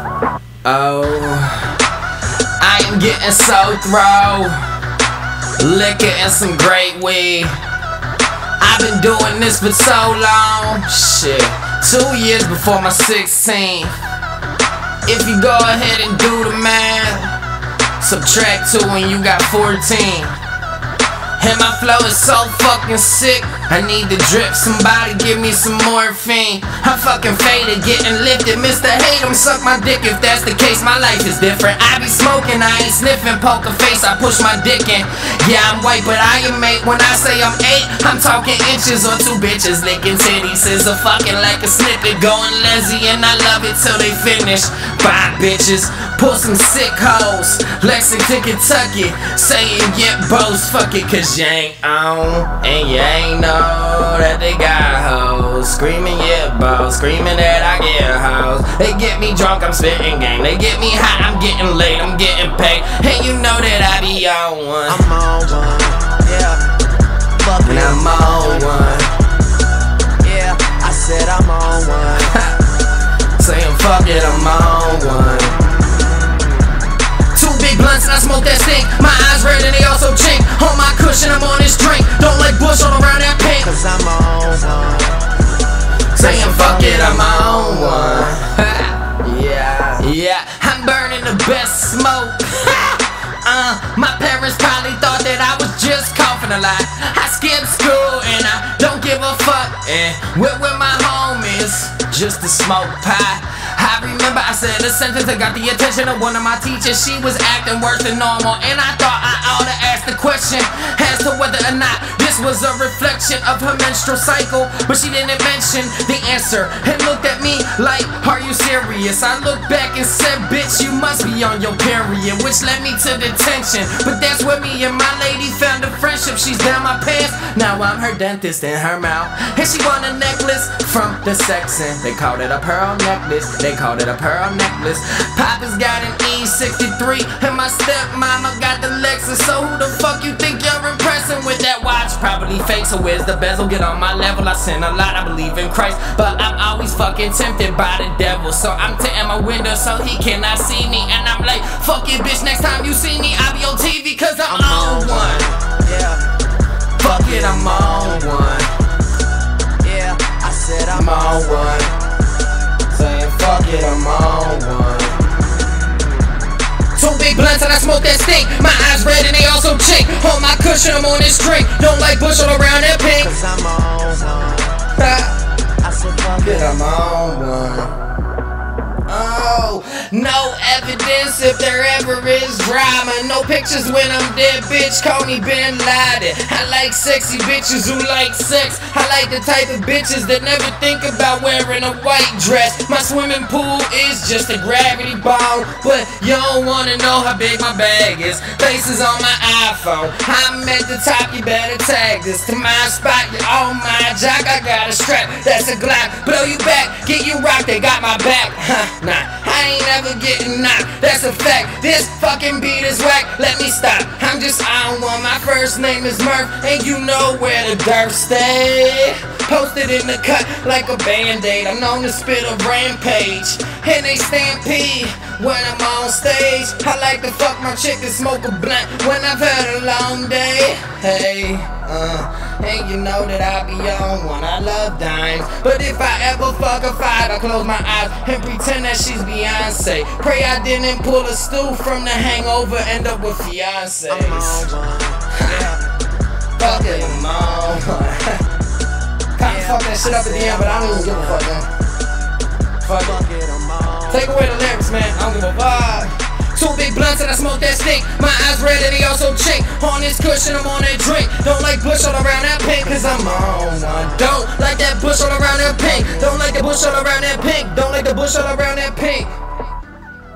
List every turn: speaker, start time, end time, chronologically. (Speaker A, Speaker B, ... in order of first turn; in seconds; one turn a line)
Speaker A: 0.6-1.8
Speaker A: 2.6-4.6
Speaker A: 5.6-7.6
Speaker A: 8.6-14.0
Speaker A: 15.1-17.4
Speaker A: 18.0-20.4
Speaker A: 21.4-65.0
Speaker B: 64.9-66.7
Speaker B: 67.4-69.1
Speaker A: 67.6-69.1
Speaker B: 70.2-72.4
Speaker A: 72.2-72.6
Speaker A: 73.4-75.6
Speaker A: 77.3-83.7
Speaker B: 83.6-85.2
Speaker A: 86.1-155.5
Speaker B: 86.2-88.3
Speaker B: 154.5-156.3
Speaker A: 157.0-158.7
Speaker B: 157.0-158.6
Speaker B: 159.8-161.9
Speaker A: 160.9-161.9
Speaker A: 162.9-165.2
Speaker A: 167.0-173.4
Speaker B: 173.2-174.8
Speaker A: 175.0-175.4
Speaker B: 175.8-176.7
Speaker A: 176.4-177.9
Speaker A: 179.1-244.8
Speaker B: 244.1-245.9
Speaker A: 245.4-245.7
Speaker A: 246.6-248.4
Speaker B: 246.6-247.3
Speaker A: 249.4-251.7
Speaker B: 249.4-251.5
Speaker A: 252.8-253.2
Speaker B: 253.0-254.3
Speaker A: 254.1-269.3
Speaker B: 262.9-264.2